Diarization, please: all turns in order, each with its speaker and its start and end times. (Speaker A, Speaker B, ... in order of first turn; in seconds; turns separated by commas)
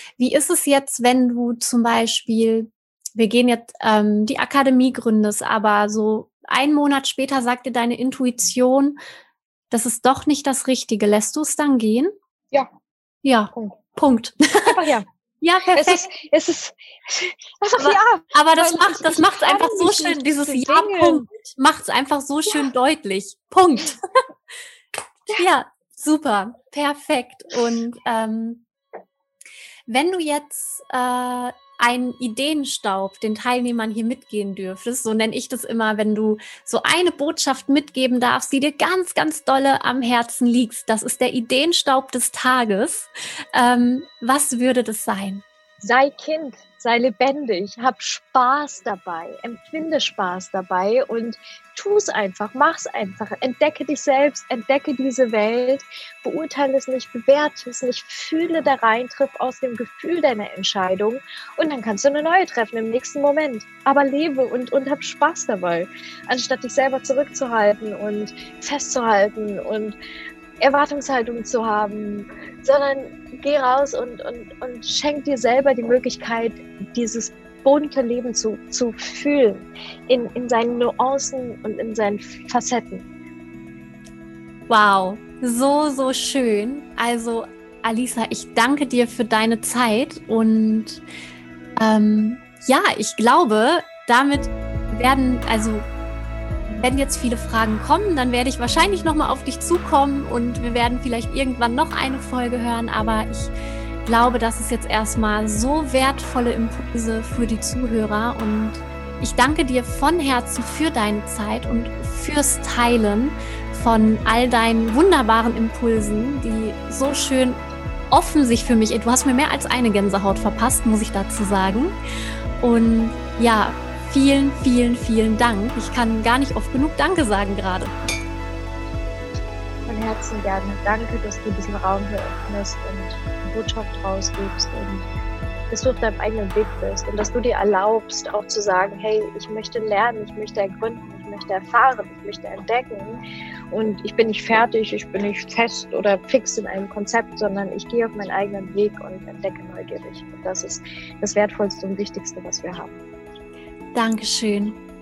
Speaker A: 0.2-9.0, Speaker A: 9.7-12.1, Speaker A: 13.2-14.8, Speaker B: 13.5-13.8, Speaker B: 14.6-15.1, Speaker A: 15.4-16.1, Speaker B: 15.7-21.2, Speaker A: 17.8-24.0, Speaker A: 25.3-28.6, Speaker A: 29.9-45.4, Speaker B: 45.8-70.0, Speaker B: 70.6-83.1, Speaker A: 84.7-91.0, Speaker A: 91.8-95.9, Speaker A: 96.7-103.5, Speaker A: 104.0-117.6, Speaker A: 118.1-122.0, Speaker A: 122.6-127.9, Speaker B: 129.8-135.1, Speaker B: 135.7-143.2, Speaker B: 143.7-153.0, Speaker A: 153.9-154.8